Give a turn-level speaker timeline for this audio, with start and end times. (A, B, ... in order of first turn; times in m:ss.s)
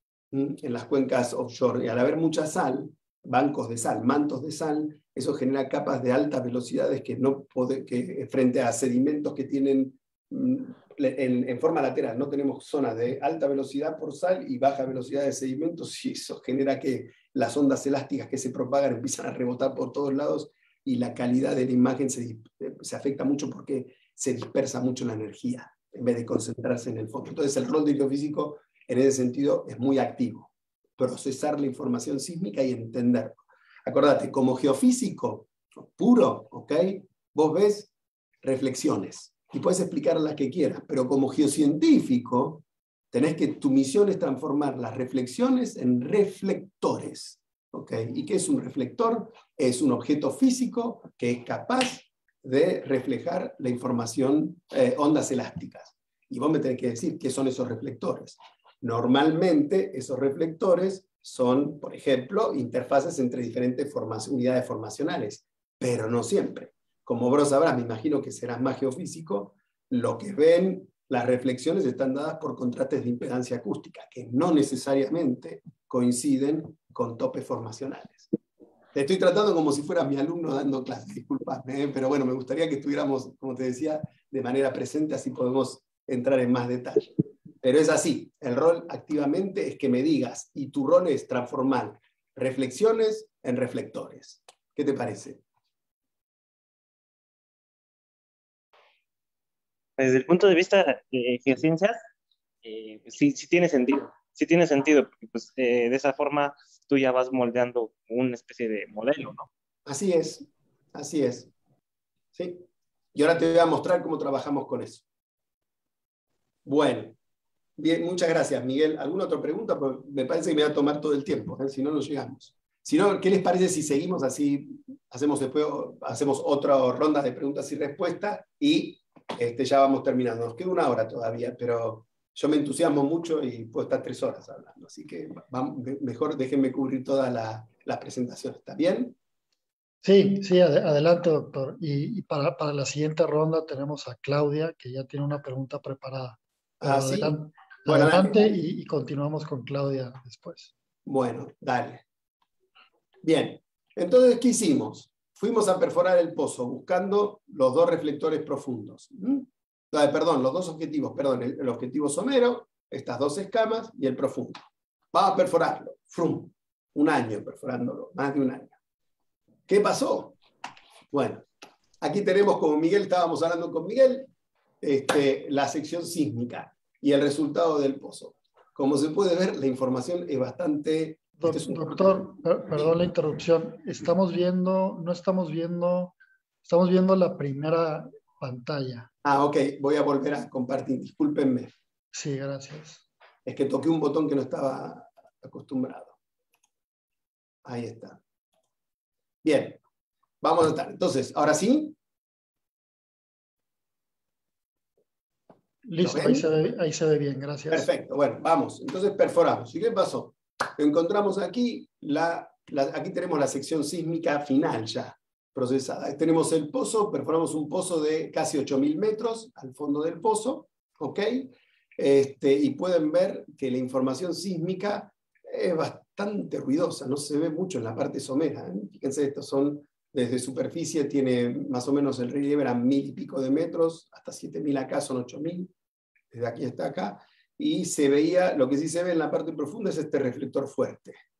0:00.3-0:37.9 A
0:38.4-1:18.3 A
1:18.9-1:27.1 A
1:27.6-1:35.4 A
1:40.0-1:42.0 B
1:42.6-1:49.5 B
1:49.8-1:51.5 A
1:52.3-1:55.0 A
1:56.6-1:57.1 A
1:57.8-2:19.2 A
2:20.0-2:30.7 C
2:26.8-2:27.3 A
2:27.8-2:28.4 A
2:31.0-2:32.0 A
2:33.2-2:48.7 A
2:49.7-2:50.4 A
2:51.1-2:51.4 A
2:52.0-2:54.3 A
2:54.8-3:02.9 A
3:01.4-3:09.1 C
3:09.2-3:11.7 A
3:12.1-3:13.0 C
3:13.4-3:16.2 A
3:17.6-3:18.2 A
3:19.4-3:19.8 A
3:20.4-3:21.9 A
3:25.9-3:27.9 C
3:26.0-3:26.4 A
3:27.7-3:55.7 A
3:56.3-4:01.2 A